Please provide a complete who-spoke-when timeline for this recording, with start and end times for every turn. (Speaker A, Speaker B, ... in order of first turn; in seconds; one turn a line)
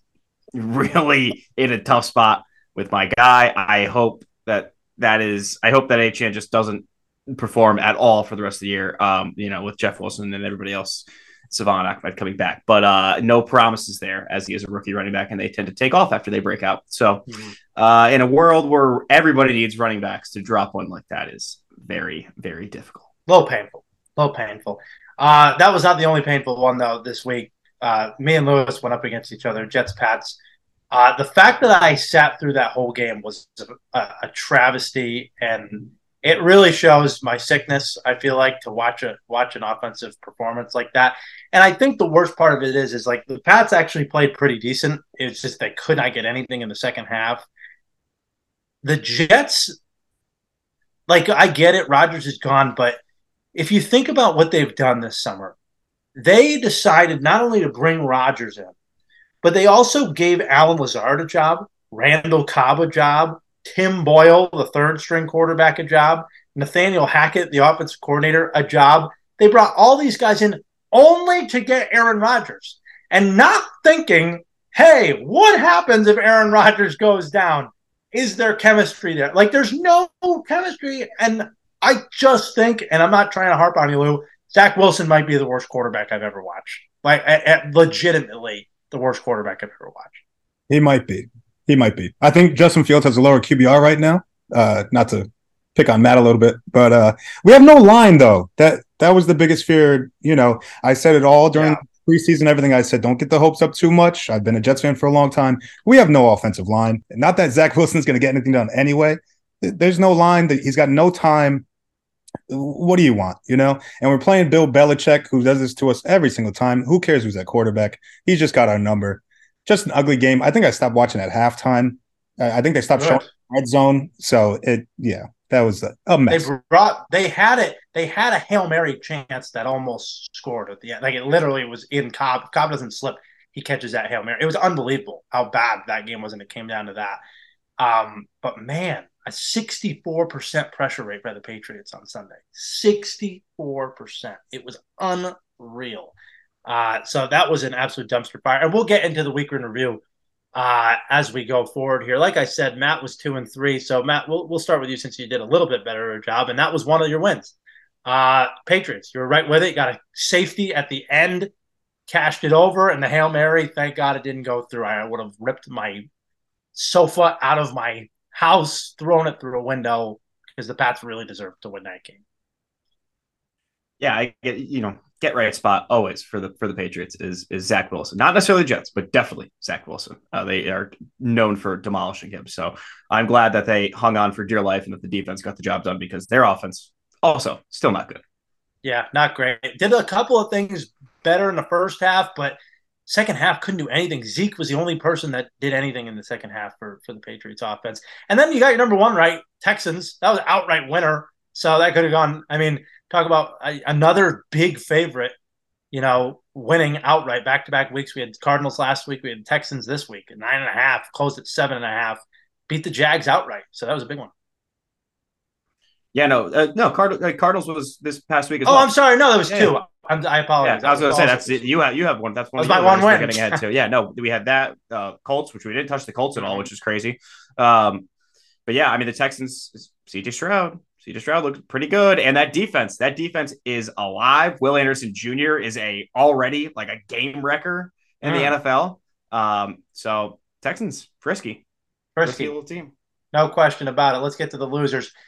Speaker A: 0.5-23.1
Speaker B: 23.3-30.4
Speaker B: 30.9-47.5
Speaker B: 48.8-49.8
Speaker B: 51.1-53.0
Speaker B: 53.5-55.5
Speaker B: 56.1-58.7
Speaker B: 59.4-90.2
Speaker C: 90.7-111.7
Speaker B: 101.5-101.8
Speaker C: 112.5-126.5
Speaker B: 123.0-123.2
Speaker B: 126.3-137.2
Speaker B: 137.8-146.1
Speaker B: 146.7-150.0
Speaker B: 150.6-157.5
Speaker B: 158.1-161.5
Speaker B: 162.1-166.1
Speaker B: 166.8-172.2
Speaker A: 174.0-188.2
Speaker B: 188.8-205.3
Speaker B: 205.9-214.3
Speaker A: 216.1-218.9
Speaker B: 218.7-221.7
Speaker A: 220.6-228.1
Speaker B: 222.6-223.6
Speaker B: 226.4-226.7
Speaker A: 228.7-241.6
Speaker B: 238.2-238.6
Speaker B: 242.2-242.5
Speaker A: 242.2-242.9
Speaker B: 243.3-245.1